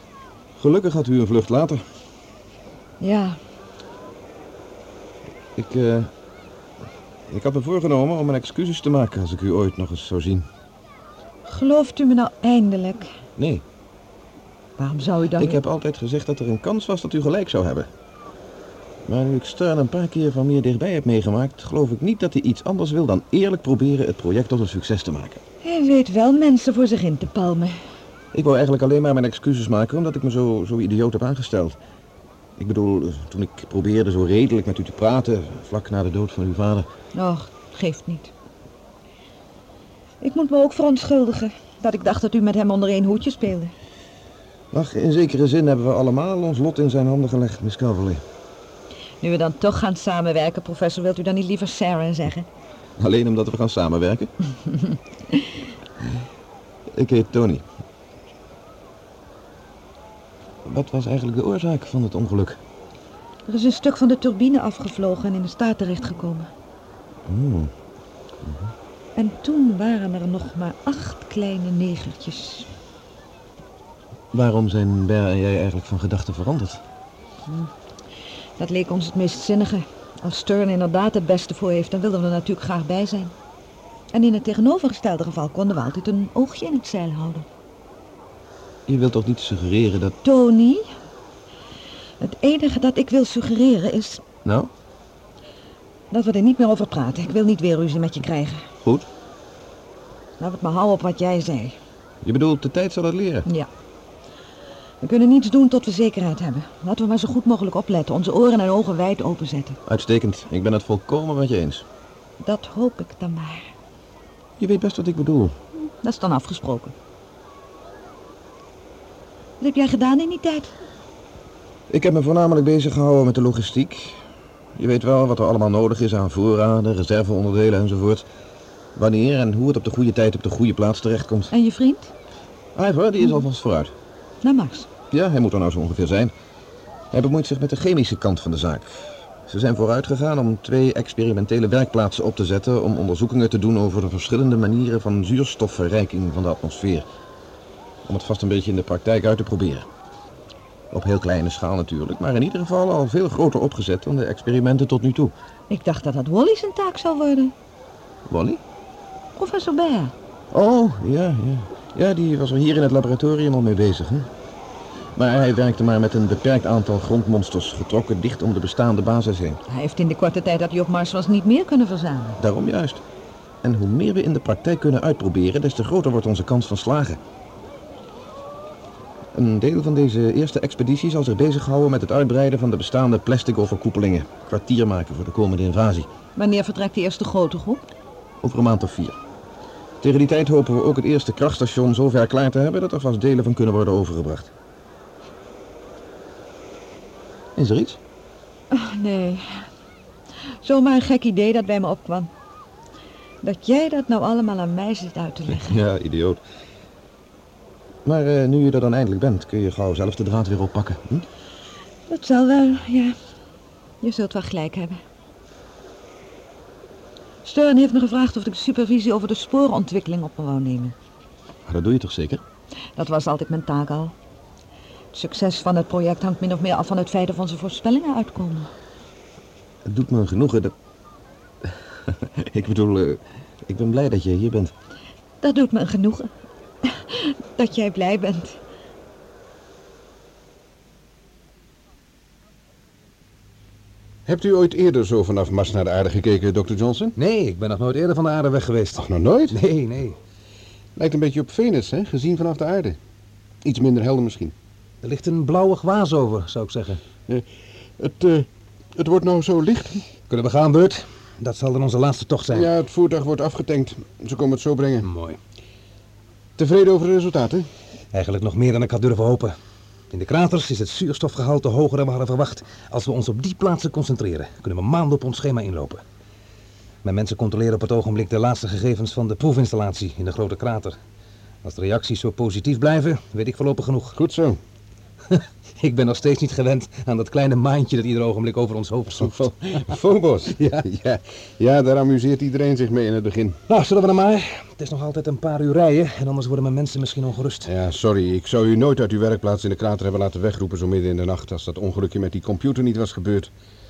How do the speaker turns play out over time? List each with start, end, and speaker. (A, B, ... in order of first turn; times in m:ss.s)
0:00.6-0:01.8 A
0:03.0-0:03.4 B
0:05.6-0:06.1 A
0:07.3-0:10.5 A
0:11.5-0:13.1 B
0:13.4-0:13.6 A
0:14.8-0:15.6 B
0:15.4-0:17.9 A
0:19.1-0:25.4 A
0:25.6-0:27.8 B
0:28.3-0:31.8 A
0:32.6-0:36.9 A
0:37.1-0:38.3 B
0:40.2-0:43.7 B
0:44.7-0:48.2 A
0:49.2-0:52.5 B
0:53.0-0:54.3 A
0:56.9-0:57.6 A
1:00.7-1:02.6 A
1:03.5-1:06.5 B
1:07.3-1:07.7 A
1:08.4-1:08.7 A
1:09.2-1:12.7 B
1:14.3-1:16.8 A
1:18.6-1:23.3 B
1:24.1-1:27.5 B
1:28.9-1:30.2 A
1:30.2-1:30.9 B
1:32.2-1:34.2 B
1:34.4-1:34.7 A
1:36.1-1:38.6 B
1:40.4-1:41.8 B
1:42.2-1:43.5 A
1:45.0-1:49.8 B
1:49.9-1:51.8 A
1:52.4-1:53.7 B
1:54.6-1:55.6 A
1:56.0-1:56.9 B
1:59.6-2:00.7 B
2:01.9-2:04.2 A
2:04.8-2:08.2 A
2:09.0-2:11.5 A
2:11.5-2:12.1 B
2:12.8-2:13.9 A
2:14.4-2:14.9 B
2:15.1-2:16.3 A
2:17.1-2:27.1 A
2:28.1-2:29.9 A
2:30.9-2:35.3 A
2:35.7-2:37.5 B
2:38.3-2:38.6 A
2:39.4-2:40.1 B
2:40.5-2:44.3 A
2:45.2-2:49.6 A
2:49.7-2:52.4 B
2:52.4-2:53.0 A
2:53.6-2:57.2 A
2:59.4-3:06.1 A
3:06.4-3:07.8 B
3:08.4-3:09.2 A
3:10.0-3:14.5 A
3:17.6-3:18.0 A
3:18.7-3:19.7 B
3:20.6-3:22.3 B
3:23.4-3:25.8 B
3:25.6-3:26.4 A
3:28.0-3:31.2 A
3:32.1-3:33.2 B
3:34.0-3:35.0 B
3:37.4-3:41.0 B
3:41.7-3:42.4 A
3:43.0-3:44.1 B
3:45.1-3:48.7 B
3:49.9-3:50.7 A
3:51.6-3:54.7 A
3:55.4-3:56.3 B
3:56.8-3:58.6 B
4:04.3-4:07.1 C
4:07.2-4:10.2 D
4:09.0-4:09.6 C
4:11.0-4:13.0 C
4:13.6-4:14.5 C
4:15.0-4:17.0 D
4:18.0-4:20.0 C
4:20.3-4:22.7 D
4:22.5-4:25.1 C
4:25.0-4:25.4 D
4:26.6-4:27.7 C
4:28.1-4:29.5 D
4:30.1-4:36.0 D
4:37.0-4:41.0 D
4:41.6-4:44.2 D
4:44.2-4:44.6 C
4:45.4-4:49.9 D
4:49.2-4:53.6 C
4:53.7-4:57.7 D
4:57.6-5:03.5 C